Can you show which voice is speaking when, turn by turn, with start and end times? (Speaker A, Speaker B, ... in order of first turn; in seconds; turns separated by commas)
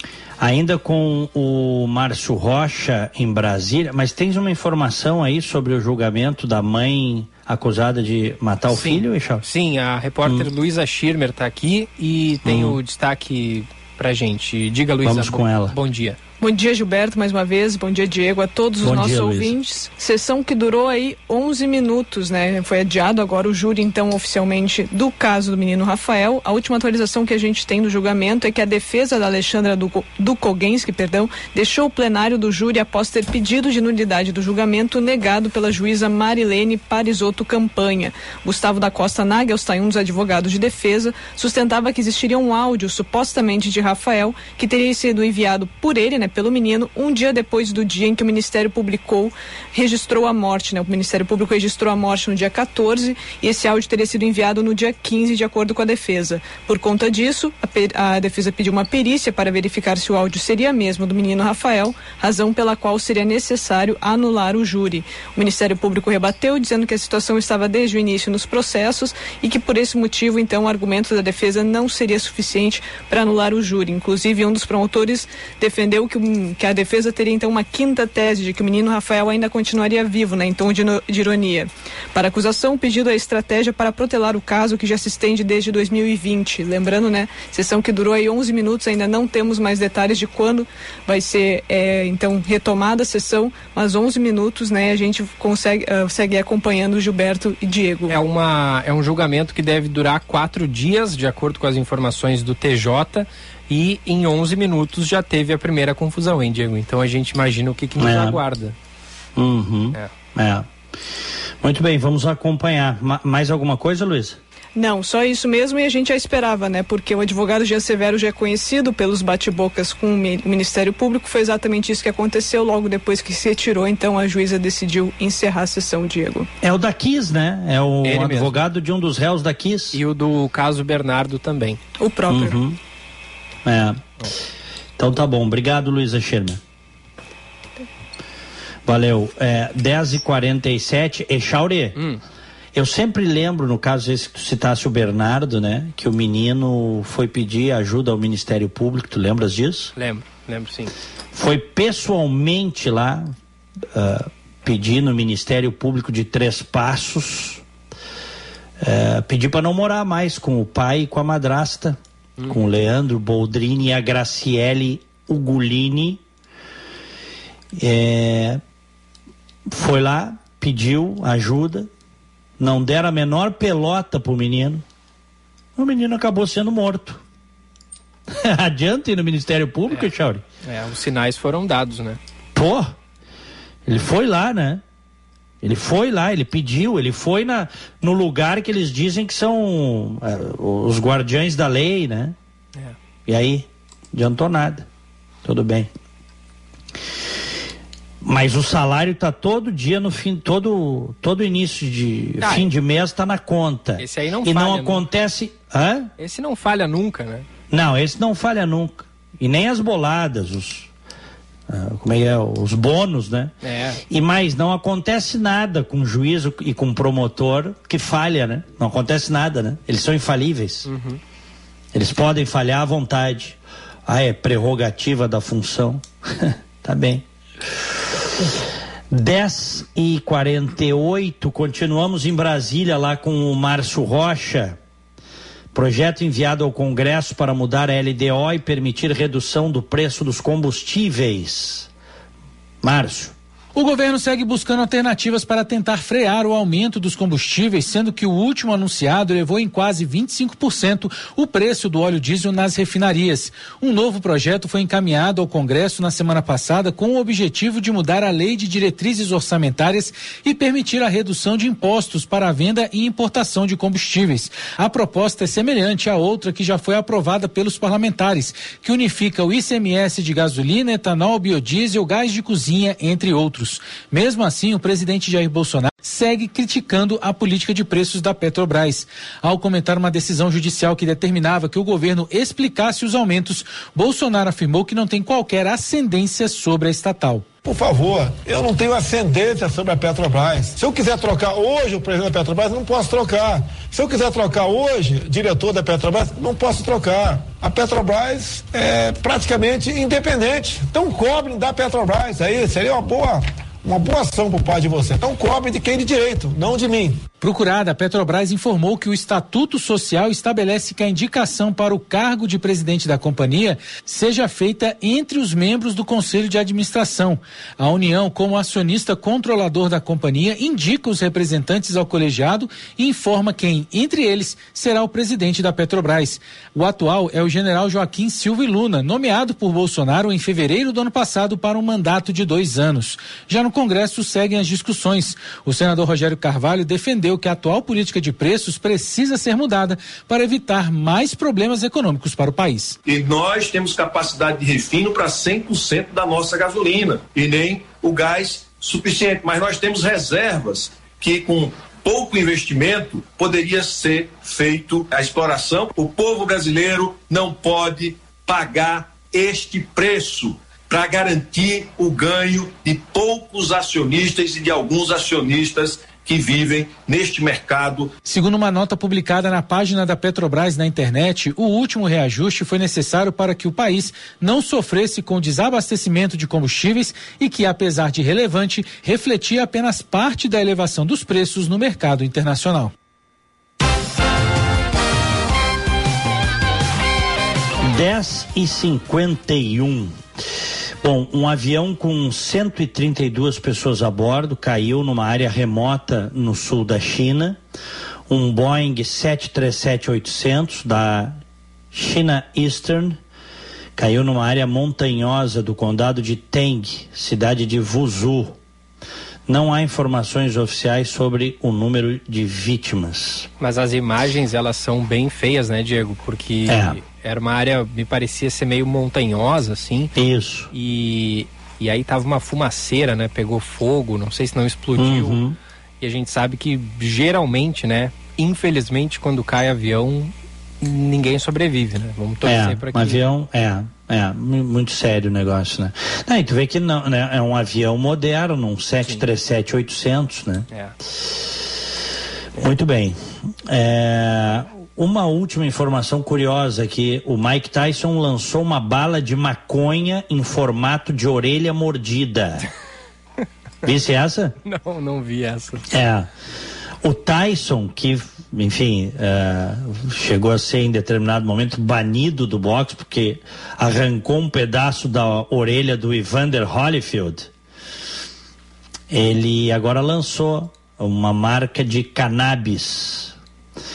Speaker A: 0.4-9.4, Speaker B: 8.7-16.2, Speaker A: 12.4-12.8, Speaker A: 15.0-15.8, Speaker C: 16.4-98.2, Speaker A: 18.8-19.6, Speaker B: 98.1-108.8, Speaker A: 108.0-108.4, Speaker A: 109.4-110.7, Speaker A: 111.6-114.4, Speaker C: 114.8-126.5, Speaker A: 126.6-130.0, Speaker B: 128.0-128.6, Speaker B: 129.9-131.8, Speaker C: 132.0-132.6, Speaker A: 132.3-132.8, Speaker A: 133.7-134.0, Speaker A: 135.0-136.6, Speaker A: 138.9-142.0, Speaker B: 142.0-142.2, Speaker A: 142.7-149.9, Speaker B: 150.0-150.9, Speaker A: 151.3-153.3, Speaker A: 153.9-157.6, Speaker A: 158.8-162.0, Speaker A: 162.5-166.2, Speaker A: 167.7-168.6, Speaker A: 169.7-171.9, Speaker A: 172.6-174.8, Speaker A: 175.8-177.2, Speaker A: 178.3-180.4, Speaker B: 180.6-182.2, Speaker A: 182.6-182.9, Speaker A: 183.9-184.8, Speaker A: 185.6-192.3, Speaker A: 193.3-194.9, Speaker A: 195.4-195.9, Speaker A: 198.2-206.1, Speaker B: 202.4-202.7, Speaker B: 204.0-205.0, Speaker B: 206.2-207.5, Speaker A: 207.7-210.9, Speaker A: 211.7-213.5, Speaker B: 213.6-214.0, Speaker A: 214.1-220.9, Speaker B: 220.9-221.2, Speaker A: 221.9-227.2, Speaker A: 229.1-234.8, Speaker A: 235.7-241.9, Speaker A: 242.8-243.3, Speaker D: 243.8-287.5, Speaker E: 287.6-307.3, Speaker D: 307.4-343.0, Speaker F: 343.0-368.1, Speaker D: 368.2-382.9, Speaker A: 387.8-390.2, Speaker A: 391.0-397.6, Speaker A: 398.3-401.4, Speaker A: 401.9-403.2, Speaker A: 404.0-408.6, Speaker A: 409.5-413.5, Speaker B: 413.6-420.1, Speaker A: 416.7-417.0, Speaker A: 420.1-420.7, Speaker B: 420.7-425.4, Speaker A: 425.0-425.6, Speaker B: 426.0-433.2, Speaker A: 432.4-440.7, Speaker A: 442.6-452.7, Speaker A: 453.8-454.6, Speaker B: 454.6-455.9, Speaker A: 455.9-456.3, Speaker A: 457.0-467.5, Speaker A: 469.1-473.4